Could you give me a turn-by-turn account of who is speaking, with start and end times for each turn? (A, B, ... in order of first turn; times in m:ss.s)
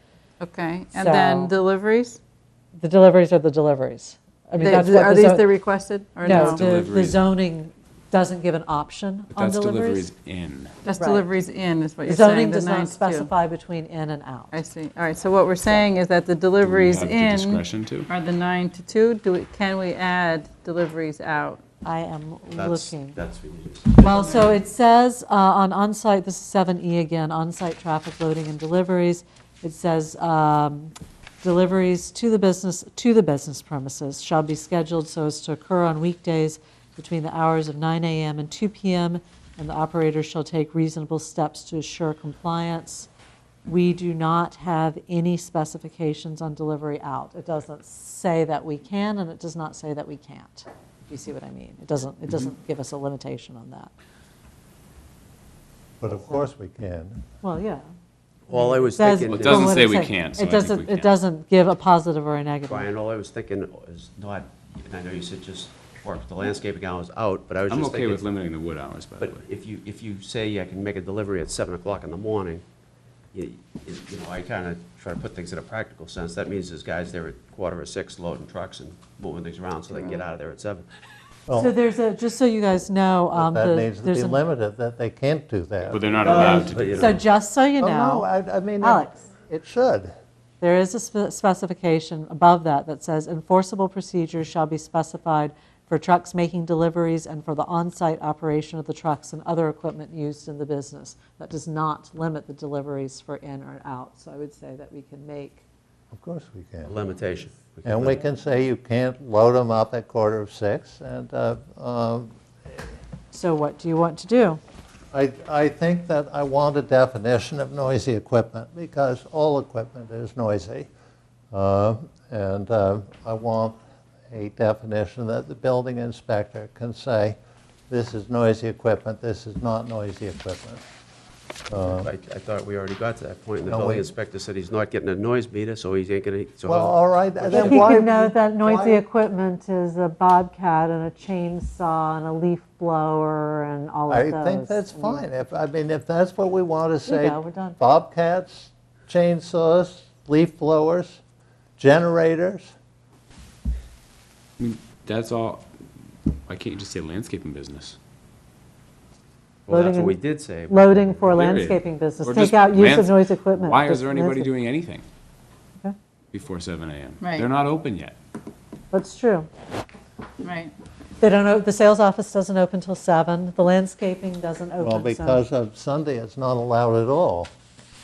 0:00.4-0:02.2 A
0:00.9-0:01.5 B
0:02.8-0:05.5 B
0:04.6-0:06.6 A
0:06.2-0:10.1 B
0:06.4-0:07.2 C
0:09.3-0:10.8 C
0:10.8-0:13.3 A
0:11.0-0:11.2 B
0:12.1-0:14.5 B
0:14.5-0:21.6 A
0:16.6-0:18.1 C
0:21.8-0:23.2 B
0:22.5-0:24.0 D
0:24.0-0:43.1 B
0:24.0-0:24.4 A
0:43.7-0:53.9 B
0:56.0-0:57.2 E
0:57.4-0:57.8 B
0:58.5-0:59.8 D
0:58.5-1:02.9 B
0:59.3-1:01.1 C
1:02.7-1:08.3 D
1:07.7-1:09.4 C
1:09.2-1:12.6 D
1:13.3-1:20.9 D
1:21.5-1:21.8 E
1:21.6-1:24.4 B
1:23.3-1:26.7 E
1:25.9-1:27.2 C
1:26.2-1:27.2 D
1:26.3-1:28.3 B
1:27.8-1:30.2 E
1:28.8-1:29.2 B
1:30.6-1:45.6 B
1:46.1-1:47.0 E
1:46.8-1:48.2 D
1:47.8-1:52.8 E
1:53.3-1:54.6 B
1:55.1-2:00.9 E
2:01.5-2:03.8 E
2:04.3-2:07.4 E
2:07.9-2:10.8 E
2:11.7-2:12.1 E
2:11.8-2:18.0 D
2:13.6-2:14.1 E
2:16.6-2:19.0 E
2:17.5-2:25.2 B
2:24.1-2:31.2 E
2:27.1-2:27.8 B
2:31.8-2:32.7 E
2:34.6-2:35.7 C
2:36.5-2:38.0 C
2:39.7-2:40.8 D
2:39.7-2:44.5 B
2:41.3-2:45.0 C
2:46.3-2:48.2 C
2:47.2-2:47.5 A
2:48.9-2:49.5 B
2:50.4-2:50.7 A
2:51.2-2:55.4 B
2:54.8-2:57.5 E